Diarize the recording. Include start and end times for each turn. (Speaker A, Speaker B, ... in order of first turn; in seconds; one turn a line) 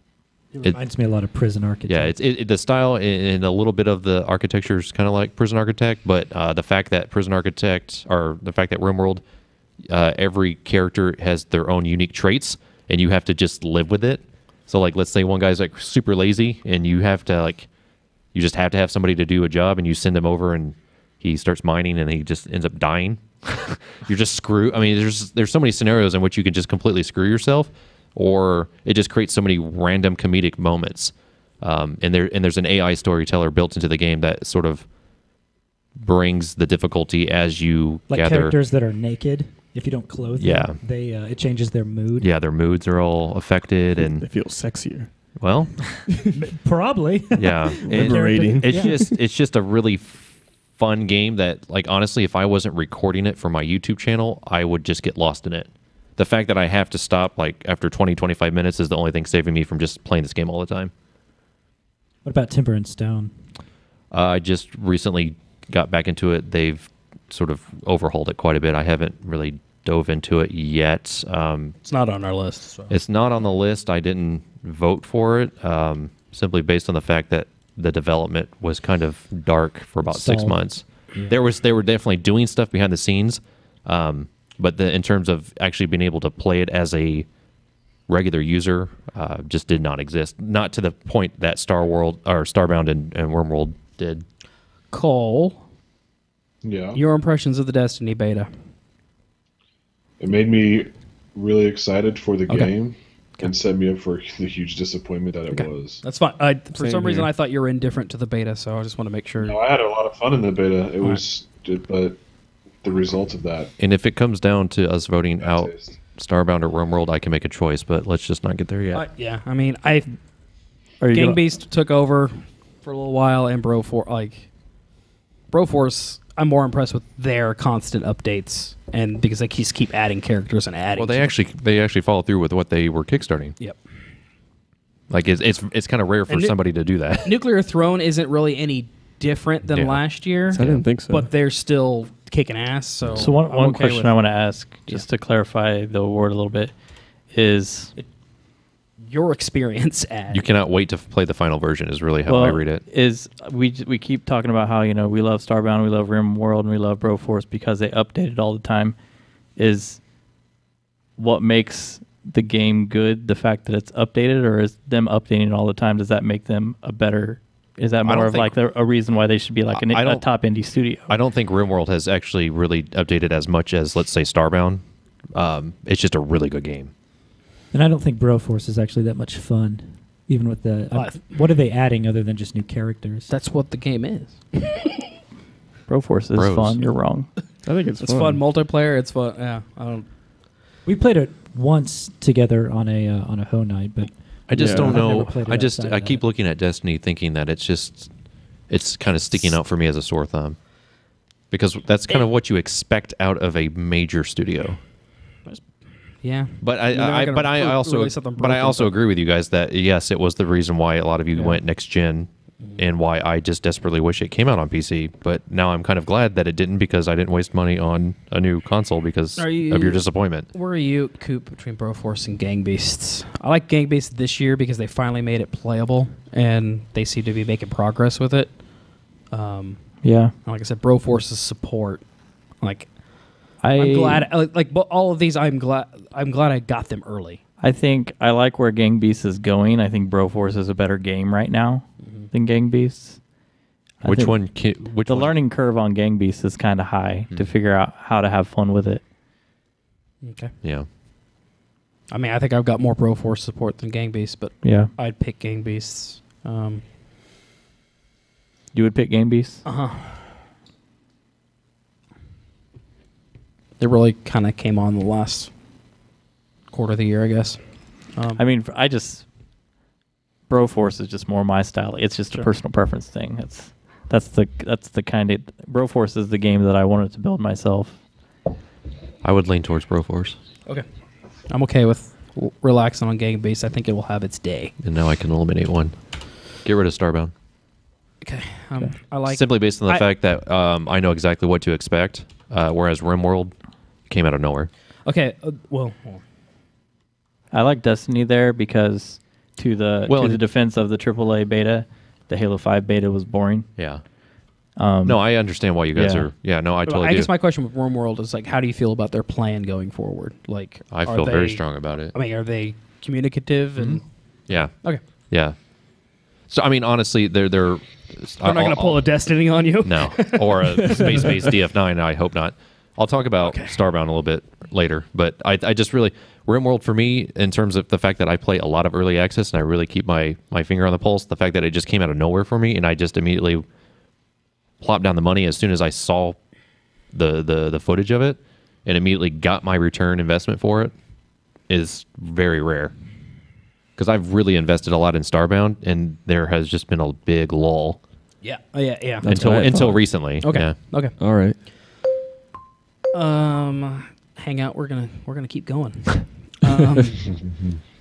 Speaker A: 0.5-2.1
Speaker B: 1.9-9.2
Speaker B: 9.9-17.7
Speaker B: 18.3-34.9
Speaker B: 36.0-38.6
Speaker A: 38.1-42.3
Speaker B: 40.4-40.8
Speaker B: 42.2-44.3
Speaker C: 44.0-45.1
Speaker B: 45.4-46.0
Speaker C: 46.1-46.4
Speaker A: 46.4-49.0
Speaker B: 47.3-60.9
Speaker C: 47.8-49.1
Speaker A: 62.2-63.3
Speaker B: 64.1-71.8
Speaker D: 71.8-72.9
Speaker B: 72.9-87.3
Speaker A: 80.0-80.6
Speaker B: 88.1-94.2
Speaker D: 94.9-95.6
Speaker E: 96.6-97.0
Speaker D: 96.9-98.5
Speaker E: 100.2-106.0
Speaker D: 105.5-109.6
Speaker C: 106.7-107.3
Speaker E: 109.4-112.2
Speaker E: 112.8-113.7
Speaker B: 113.8-119.1
Speaker E: 115.4-115.9
Speaker D: 118.9-120.6
Speaker F: 121.0-121.4
Speaker D: 121.1-124.5
Speaker D: 125.5-131.3
Speaker B: 130.9-133.6
Speaker B: 135.1-137.4
Speaker D: 136.3-136.5
Speaker D: 137.2-144.2
Speaker B: 139.7-140.8
Speaker C: 140.5-141.3
Speaker F: 143.1-146.7
Speaker F: 147.3-147.9
Speaker D: 149.0-150.4
Speaker B: 150.3-152.8
Speaker F: 152.3-158.9
Speaker F: 159.6-160.0
Speaker F: 161.2-171.2
Speaker B: 168.0-168.5
Speaker B: 169.7-170.3
Speaker B: 171.1-174.8
Speaker B: 175.3-176.9
Speaker A: 177.7-183.3
Speaker D: 180.9-181.3
Speaker D: 183.3-185.1
Speaker F: 185.9-187.3
Speaker B: 186.3-186.8
Speaker C: 187.6-188.4
Speaker D: 188.0-190.1
Speaker A: 190.8-196.2
Speaker B: 194.5-200.7
Speaker C: 194.5-195.0
Speaker B: 201.5-204.8
Speaker D: 205.4-208.9
Speaker B: 206.6-220.5
Speaker D: 211.3-211.6
Speaker D: 219.4-228.6
Speaker D: 229.2-237.4
Speaker F: 230.0-230.3
Speaker F: 233.6-234.3
Speaker F: 237.6-243.2
Speaker D: 242.0-242.3
Speaker F: 244.0-249.0
Speaker B: 244.0-245.3
Speaker D: 250.2-250.5
Speaker B: 250.6-250.9
Speaker D: 252.1-256.8
Speaker F: 254.6-254.9
Speaker F: 258.7-259.6
Speaker D: 259.6-260.2
Speaker D: 263.8-265.5
Speaker D: 266.7-268.4
Speaker F: 268.4-269.3
Speaker F: 270.5-278.0
Speaker B: 279.2-280.4
Speaker D: 281.4-284.7
Speaker B: 284.8-287.3
Speaker D: 288.2-290.1
Speaker B: 289.2-293.6
Speaker B: 294.1-294.7
Speaker D: 295.0-296.2
Speaker F: 297.5-303.8
Speaker B: 300.1-300.4
Speaker B: 303.8-304.0
Speaker F: 304.8-306.3
Speaker B: 305.0-307.3
Speaker D: 306.9-315.0
Speaker B: 310.9-312.1
Speaker B: 313.8-315.6
Speaker B: 316.5-333.6
Speaker D: 318.4-321.5
Speaker C: 320.8-321.2
Speaker D: 323.4-323.8
Speaker B: 334.8-336.4
Speaker B: 337.1-340.9
Speaker B: 341.7-342.9
Speaker B: 344.0-348.0
Speaker D: 348.4-349.6
Speaker C: 349.2-350.3
Speaker B: 349.3-351.0
Speaker D: 350.4-351.2
Speaker C: 351.2-351.6
Speaker D: 353.1-357.3